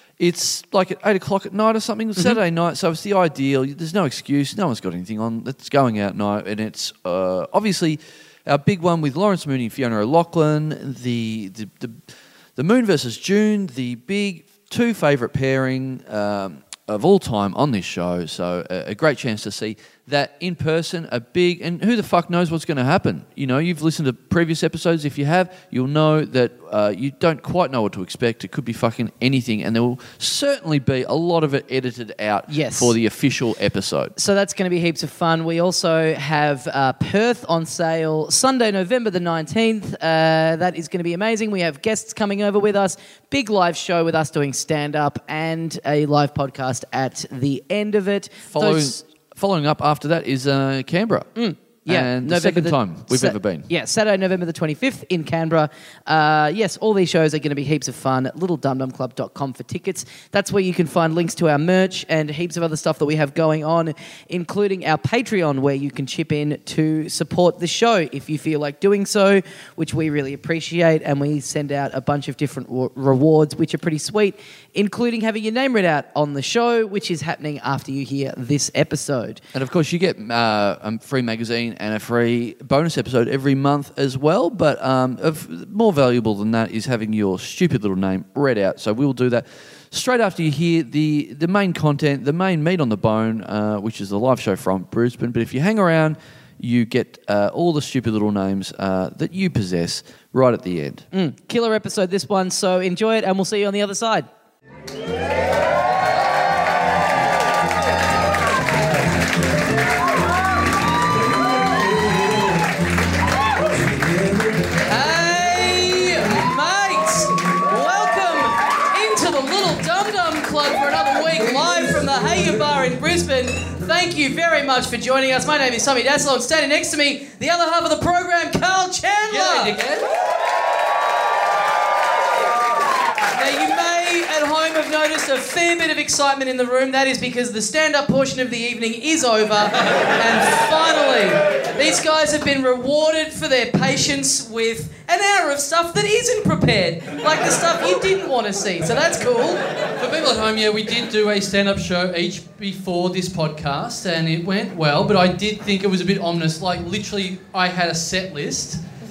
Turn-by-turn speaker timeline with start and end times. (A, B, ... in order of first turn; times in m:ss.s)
0:00.2-0:12.0 A
0:12.6-0:34.1 A
0:32.5-0:33.0 B
0:34.2-0:49.0 B
0:48.5-0:51.3 A
0:51.4-1:19.4 B
0:51.8-0:53.7 A
1:19.5-1:41.0 A
1:41.1-1:44.3 B
1:54.9-2:09.8 B
2:09.3-2:10.1 C
2:13.3-2:29.6 B
2:30.0-2:38.8 C